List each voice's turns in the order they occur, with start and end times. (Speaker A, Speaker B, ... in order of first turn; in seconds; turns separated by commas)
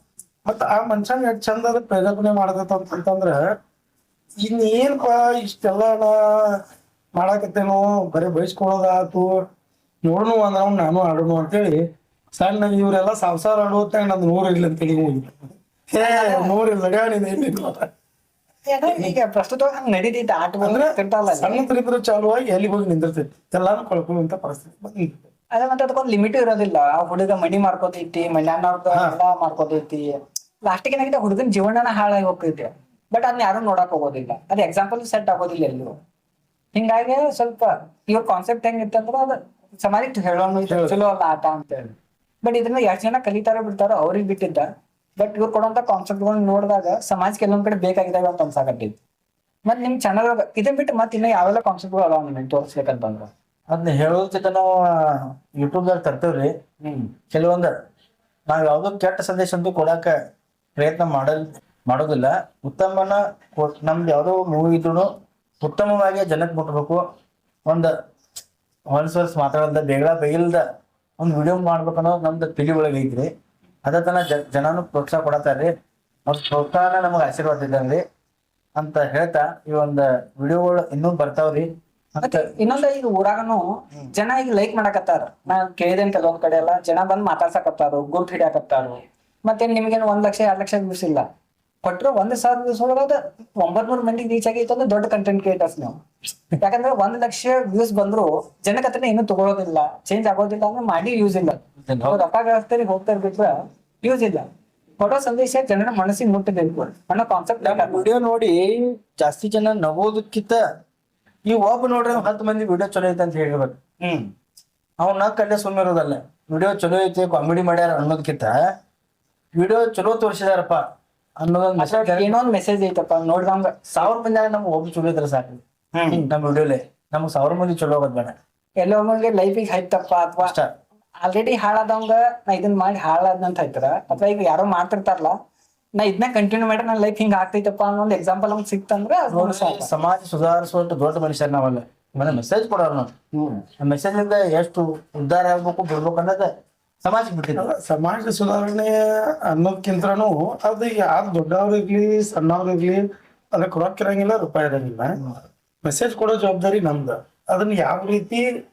Speaker A: 0.4-3.4, Speaker A: 4.4-6.5, Speaker A: 7.1-9.4, Speaker A: 10.0-11.8, Speaker A: 12.3-15.3, Speaker A: 15.9-17.9, Speaker B: 16.0-16.5, Speaker B: 18.6-21.6, Speaker A: 20.6-25.2, Speaker B: 25.5-36.0, Speaker A: 28.9-29.2, Speaker B: 36.7-44.7, Speaker B: 45.2-49.0, Speaker B: 49.6-53.3, Speaker C: 53.7-56.5, Speaker B: 56.8-57.1, Speaker C: 57.3-57.7, Speaker C: 58.5-60.1, Speaker C: 60.8-65.1, Speaker C: 65.6-67.0, Speaker C: 67.7-67.9, Speaker C: 68.9-70.6, Speaker C: 71.2-73.3, Speaker C: 73.8-75.7, Speaker C: 76.3-78.0, Speaker C: 78.8-82.5, Speaker B: 82.2-91.2, Speaker B: 91.8-96.0, Speaker B: 96.5-104.5, Speaker C: 101.8-102.2, Speaker B: 105.0-108.1, Speaker C: 107.6-110.6, Speaker C: 111.4-113.8, Speaker B: 114.0-114.3, Speaker C: 115.0-118.6, Speaker C: 119.5-120.8, Speaker C: 121.4-122.3, Speaker B: 121.8-123.8, Speaker C: 123.9-128.3, Speaker B: 125.9-126.2, Speaker B: 128.8-130.5, Speaker C: 130.4-130.7, Speaker B: 131.2-135.3, Speaker B: 136.0-139.9, Speaker C: 139.3-146.5, Speaker B: 143.3-143.6, Speaker C: 147.0-147.7, Speaker A: 147.6-158.5